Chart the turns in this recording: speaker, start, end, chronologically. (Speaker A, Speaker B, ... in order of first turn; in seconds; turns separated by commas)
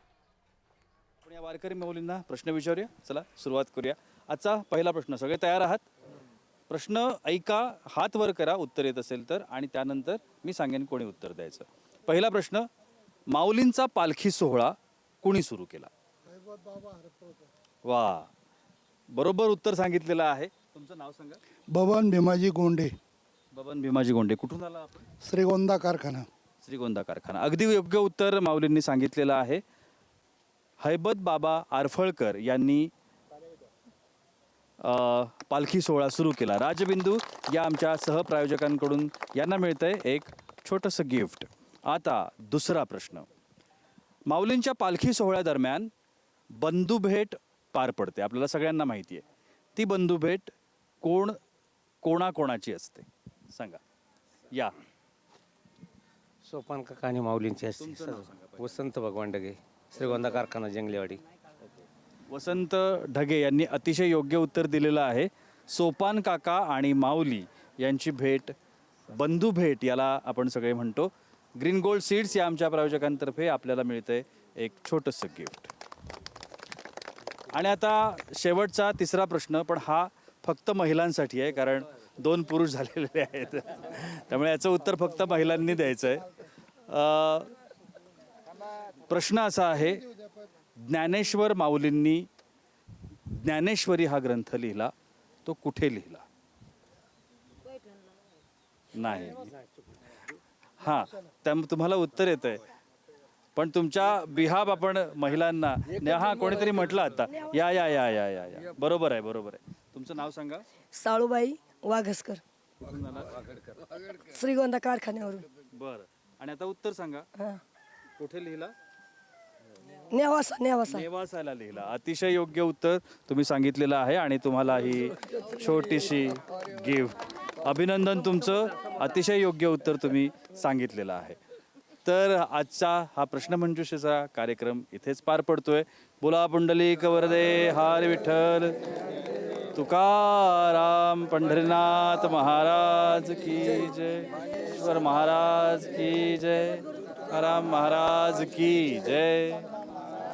Speaker A: 1.2-5.9, Speaker A: 6.7-12.7, Speaker A: 13.3-15.9, Speaker B: 16.4-17.4, Speaker A: 17.8-18.3, Speaker A: 19.1-21.4, Speaker B: 21.7-22.9, Speaker A: 23.5-25.1, Speaker B: 25.2-26.3, Speaker A: 26.6-29.6, Speaker A: 30.8-32.9, Speaker A: 34.8-43.3, Speaker A: 44.3-45.9, Speaker A: 46.6-49.2, Speaker A: 49.8-51.4, Speaker A: 52.0-53.8, Speaker C: 56.4-61.2, Speaker A: 57.8-58.8, Speaker A: 62.3-68.5, Speaker A: 69.1-75.7, Speaker A: 77.5-86.3, Speaker A: 86.9-87.5, Speaker A: 89.1-90.0, Speaker A: 90.8-92.3, Speaker A: 93.3-94.9, Speaker A: 95.4-96.2, Speaker A: 98.9-99.5, Speaker A: 100.8-102.6, Speaker A: 103.5-110.7, Speaker D: 110.9-112.4, Speaker A: 112.8-113.4, Speaker D: 114.2-115.5, Speaker A: 115.7-117.3, Speaker A: 118.2-118.7, Speaker D: 120.1-121.0, Speaker A: 120.9-131.4, Speaker A: 132.0-138.8, Speaker A: 139.7-149.7